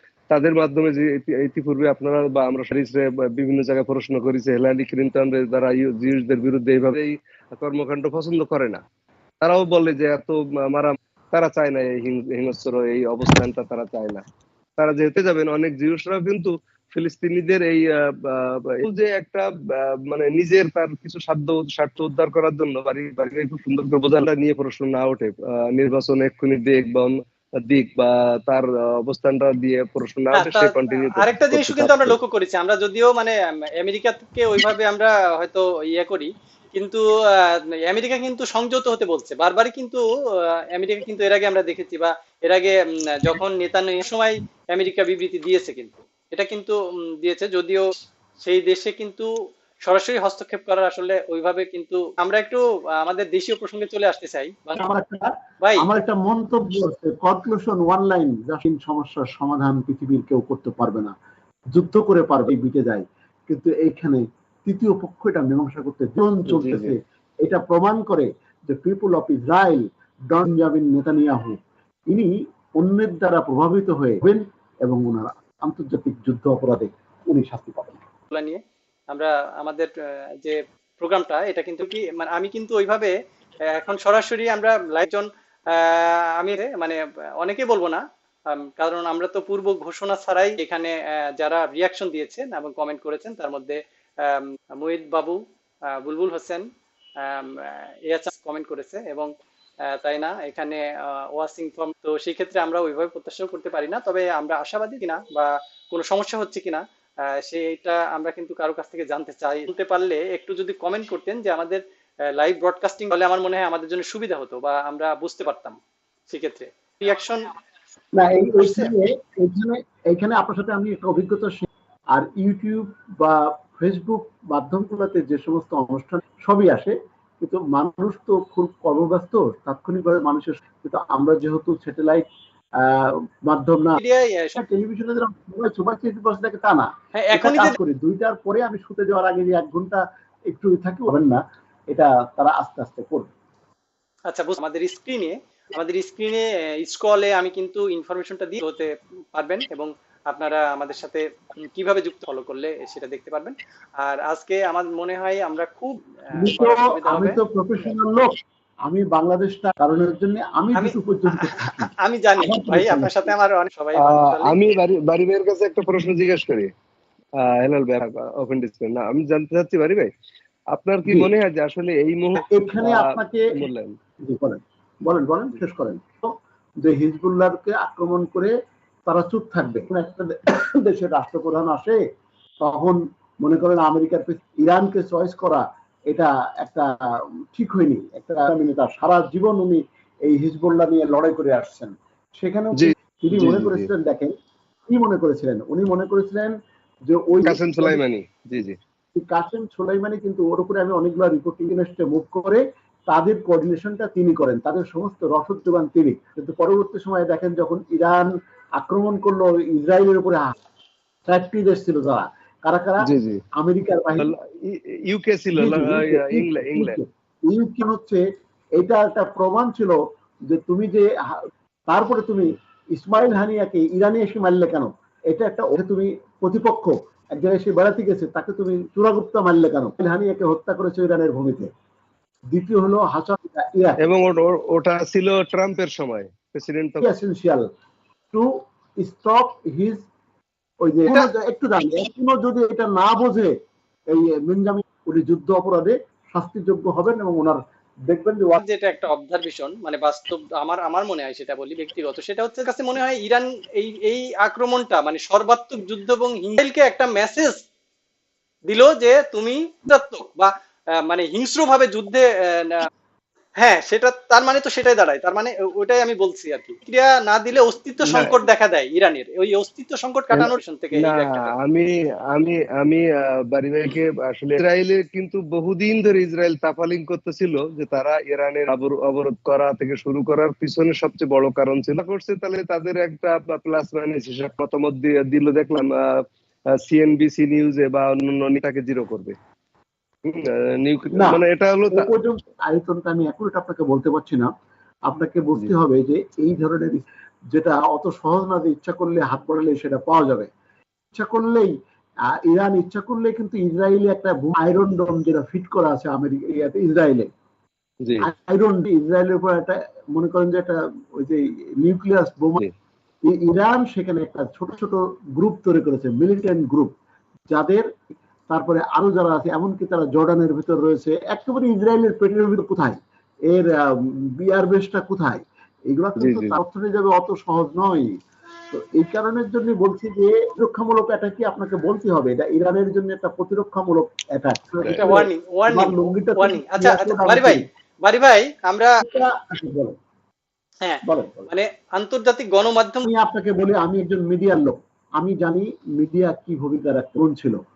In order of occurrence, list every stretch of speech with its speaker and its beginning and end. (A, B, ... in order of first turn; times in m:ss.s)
0:00.3-0:08.8 A
0:09.4-0:14.2 A
0:14.8-0:19.4 A
0:20.1-0:27.1 A
0:27.6-0:32.2 A
0:30.4-0:40.0 B
0:40.7-0:47.9 B
0:48.4-0:49.3 B
0:49.8-0:54.8 B
0:54.8-1:01.1 C
1:01.7-1:11.6 C
1:06.5-1:07.0 A
1:12.1-1:18.0 C
1:18.3-1:18.6 B
1:19.1-1:23.1 B
1:23.7-1:28.0 B
1:28.5-1:35.4 B
1:36.0-1:36.6 B
1:37.2-1:39.3 B
1:40.0-1:51.8 B
1:52.4-1:55.8 B
1:56.3-1:57.5 B
1:58.2-2:12.2 C
1:58.6-1:58.9 B
2:12.8-2:14.0 C
2:14.0-2:14.6 B
2:14.6-2:21.4 C
2:17.2-2:17.8 B
2:21.9-2:23.3 C
2:24.3-2:37.4 B
2:36.4-2:38.3 C
2:38.9-2:43.3 C
2:40.8-2:44.6 B
2:44.0-2:46.7 A
2:47.4-2:50.1 A
2:50.7-2:53.9 A
2:52.5-2:53.5 C
2:54.2-2:56.3 C
2:56.8-2:58.5 C
2:59.1-3:02.0 C
3:02.6-3:06.9 C
3:07.5-3:14.3 C
3:12.8-3:13.9 A
3:14.9-3:16.5 C
3:17.1-3:18.0 C
3:17.4-3:18.8 A
3:19.2-3:30.5 C
3:31.3-3:33.1 C
3:33.0-3:33.4 A
3:33.6-3:34.3 C
3:34.2-3:37.0 A
3:35.6-3:38.2 C
3:38.8-3:41.1 C
3:41.9-3:51.7 C
3:52.5-3:54.0 C
3:54.0-3:57.1 A
3:57.0-3:57.6 C
3:59.0-4:00.1 C
4:00.8-4:03.5 C
4:04.1-4:08.6 C
4:08.6-4:17.6 B
4:18.7-4:20.5 B
4:21.0-4:22.9 B
4:23.6-4:31.5 B
4:28.1-4:28.4 A
4:30.3-4:46.2 A
4:46.8-4:49.4 A
4:50.3-4:52.1 A
4:51.1-4:54.5 C
4:55.1-4:57.0 C
4:57.5-5:00.5 C
5:01.1-5:01.7 C
5:02.5-5:07.3 C
5:08.2-5:12.6 C
5:13.3-5:16.9 C
5:17.5-5:17.9 C
5:18.5-5:23.0 C
5:23.5-5:28.1 C
5:26.2-5:26.6 A
5:28.7-5:37.6 C
5:34.8-5:35.1 A
5:34.9-5:38.9 B
5:39.0-5:39.9 C
5:40.8-5:43.1 B
5:41.0-5:41.5 C
5:43.0-5:47.6 C